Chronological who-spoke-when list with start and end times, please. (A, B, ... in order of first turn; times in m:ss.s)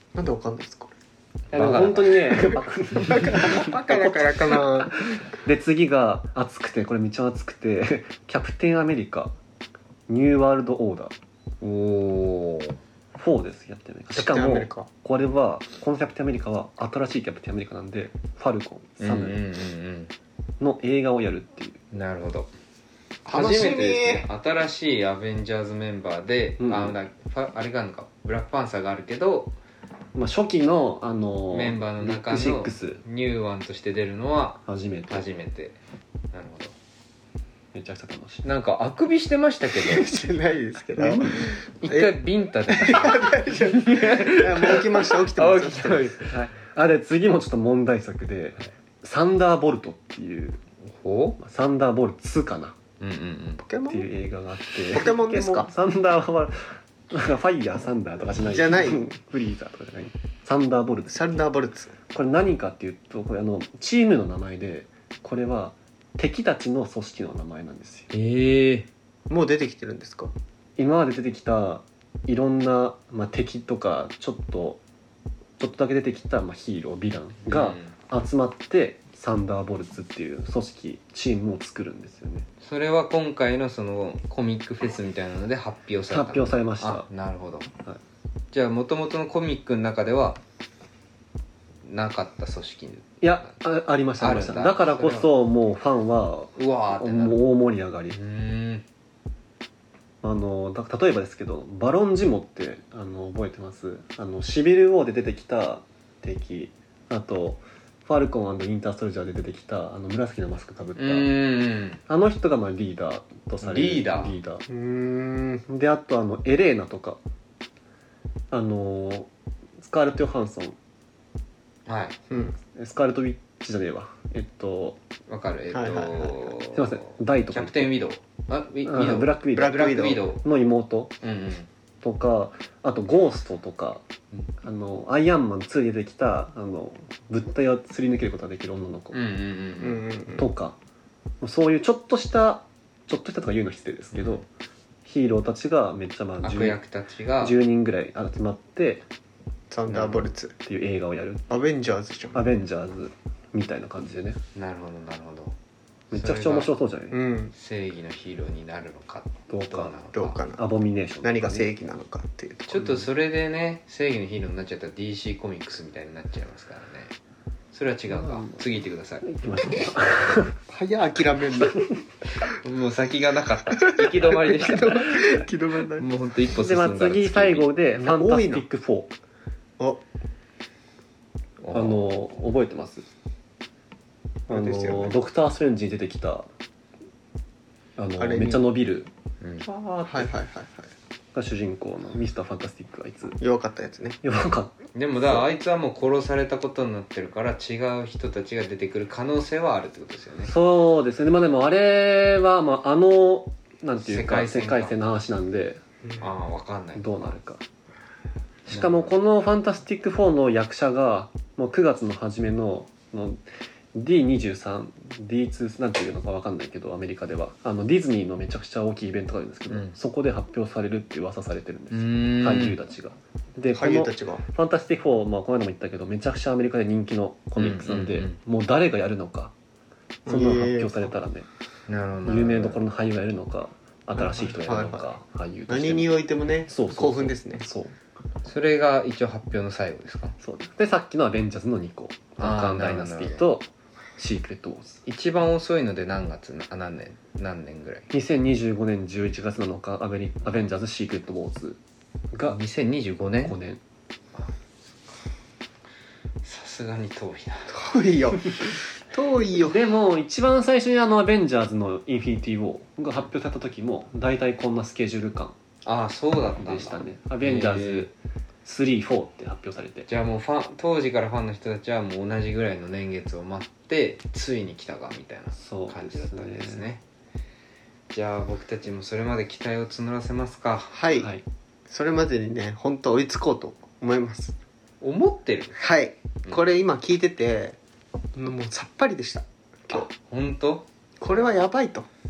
0:00.1-0:00.9 A
0:01.5-0:02.5 B
0:01.5-0:09.4 C
0:03.1-0:05.0 A
0:10.1-0:11.1 C
0:11.6-0:12.8 B
0:13.1-0:19.4 C
0:14.1-0:14.9 A
0:19.0-0:20.1 B
0:20.6-0:21.8 C
0:21.9-0:22.5 B
0:23.2-0:24.3 A
0:23.3-0:29.5 B
0:26.6-0:26.9 C
0:30.1-0:33.0 C
0:31.5-0:35.8 B
0:34.6-0:35.2 C
0:36.3-0:36.7 B
0:37.7-0:38.4 C
0:38.4-0:40.1 B
0:39.7-0:42.2 A
0:41.0-0:41.4 C
0:41.8-0:46.4 B
0:42.7-0:46.2 A
0:46.3-0:50.6 C
0:50.9-0:51.4 B
0:51.4-0:52.7 C
0:53.0-0:53.6 B
0:53.6-0:54.1 A
0:53.9-1:01.4 C
0:54.9-0:55.7 A
0:58.4-0:59.1 A
1:01.1-1:01.9 A
1:02.1-1:08.1 C
1:08.1-1:08.9 B
1:09.3-1:10.3 A
1:10.8-1:14.8 C
1:15.6-1:22.4 C
1:17.5-1:17.9 B
1:22.6-1:27.7 B
1:26.1-1:27.1 C
1:28.5-1:30.4 B
1:31.8-1:33.5 B
1:33.2-1:38.2 C
1:34.2-1:35.3 B
1:36.6-1:37.4 B
1:38.1-1:38.8 B
1:40.2-1:51.3 C
1:51.0-1:52.0 B
1:52.1-1:54.6 C
1:53.6-1:54.3 B
1:54.7-1:55.6 A
1:55.7-1:57.2 C
1:58.5-2:00.8 C
2:01.8-2:02.2 B
2:02.3-2:02.6 A
2:02.6-2:05.0 C
2:05.3-2:10.4 B
2:05.7-2:06.5 A
2:06.7-2:08.0 C
2:08.8-2:11.1 C
2:09.5-2:10.3 A
2:11.2-2:11.7 B
2:12.0-2:14.0 C
2:14.6-2:19.2 C
2:19.1-2:20.1 B
2:19.8-2:20.4 A
2:20.4-2:20.8 C
2:21.4-2:24.4 C
2:24.1-2:24.4 B
2:25.0-2:26.8 C
2:26.4-2:27.6 B
2:27.4-2:29.0 C
2:29.7-2:30.5 A
2:29.9-2:31.4 C
2:31.5-2:32.5 A
2:32.3-2:34.4 C
2:34.5-2:35.5 B
2:36.1-2:37.2 C
2:36.1-2:36.8 B
2:37.1-2:37.5 A
2:37.5-2:40.4 B
2:39.5-2:40.0 C
2:40.1-2:40.7 A
2:40.5-2:41.7 C
2:41.2-2:43.1 A
2:42.7-2:47.1 B
2:47.7-2:49.2 B
2:48.1-2:48.6 C
2:49.2-2:50.6 C
2:50.7-2:51.8 A
2:52.4-2:57.7 B
2:53.7-2:56.1 A
2:56.5-2:59.1 C
2:58.0-2:58.6 A
2:59.8-3:00.0 A
3:01.6-3:02.0 B
3:01.7-3:03.0 C
3:04.5-3:06.5 C
3:04.5-3:05.2 A
3:08.0-3:09.1 C
3:08.2-3:08.6 A
3:09.4-3:09.6 B
3:09.6-3:10.3 C
3:10.0-3:10.9 A
3:11.3-3:13.4 C
3:13.4-3:14.2 A
3:14.2-3:14.7 C
3:14.9-3:20.5 B
3:20.4-3:25.8 C
3:24.0-3:24.9 B
3:26.2-3:27.4 B
3:26.9-3:27.6 C
3:28.7-3:33.4 C
3:28.7-3:29.1 B
3:33.9-3:49.5 C
3:39.7-3:39.9 B
3:41.9-3:42.8 B
3:43.7-3:44.4 A
3:47.6-3:48.3 B
3:50.2-3:51.1 A
3:50.3-3:51.5 C
3:51.9-3:52.8 B
3:52.2-3:57.9 C
3:54.2-3:55.1 A
3:55.7-3:57.6 A
3:58.4-4:00.3 B
4:00.4-4:05.0 C
4:02.4-4:03.4 B
4:05.0-4:08.1 B
4:08.1-4:11.8 C
4:12.3-4:12.6 C
4:12.5-4:13.6 B
4:13.4-4:13.8 C
4:16.4-4:17.7 B
4:17.7-4:19.9 A
4:19.6-4:25.5 C
4:25.8-4:28.1 B
4:26.6-4:28.1 C
4:28.6-4:30.1 C
4:30.1-4:37.0 B
4:35.6-4:36.8 C
4:38.1-4:41.0 B
4:40.9-4:41.3 A
4:41.9-4:44.6 A
4:45.0-4:45.8 B
4:45.8-4:47.8 A
4:48.3-4:50.1 A
4:49.9-4:51.5 B
4:51.2-4:52.1 A